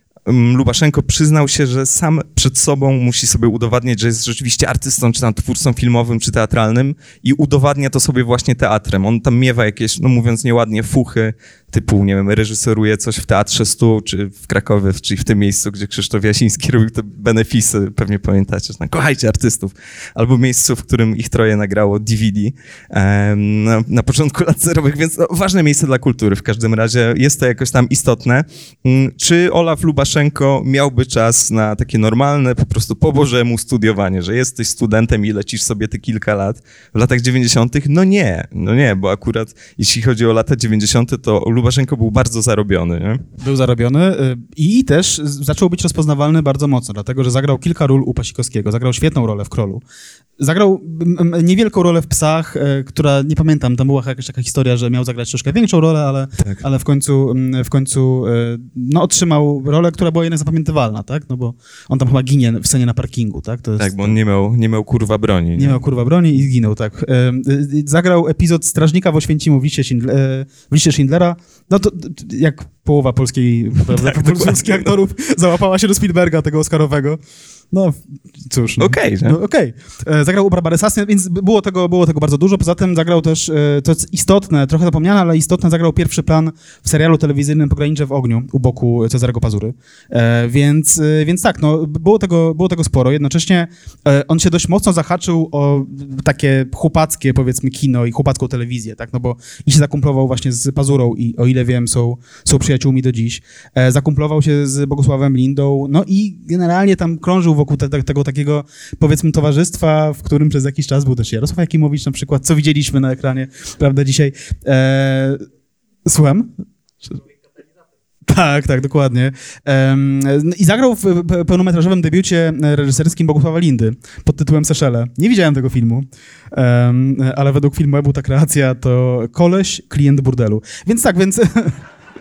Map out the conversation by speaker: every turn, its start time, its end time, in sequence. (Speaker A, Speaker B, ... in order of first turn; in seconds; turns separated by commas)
Speaker A: 0.3-43.2, Speaker B: 43.4-49.8, Speaker B: 50.4-64.2, Speaker A: 63.8-65.8, Speaker B: 65.6-77.2, Speaker A: 73.9-74.9, Speaker B: 77.7-115.5, Speaker A: 78.8-79.4, Speaker B: 116.1-116.5, Speaker B: 118.3-131.8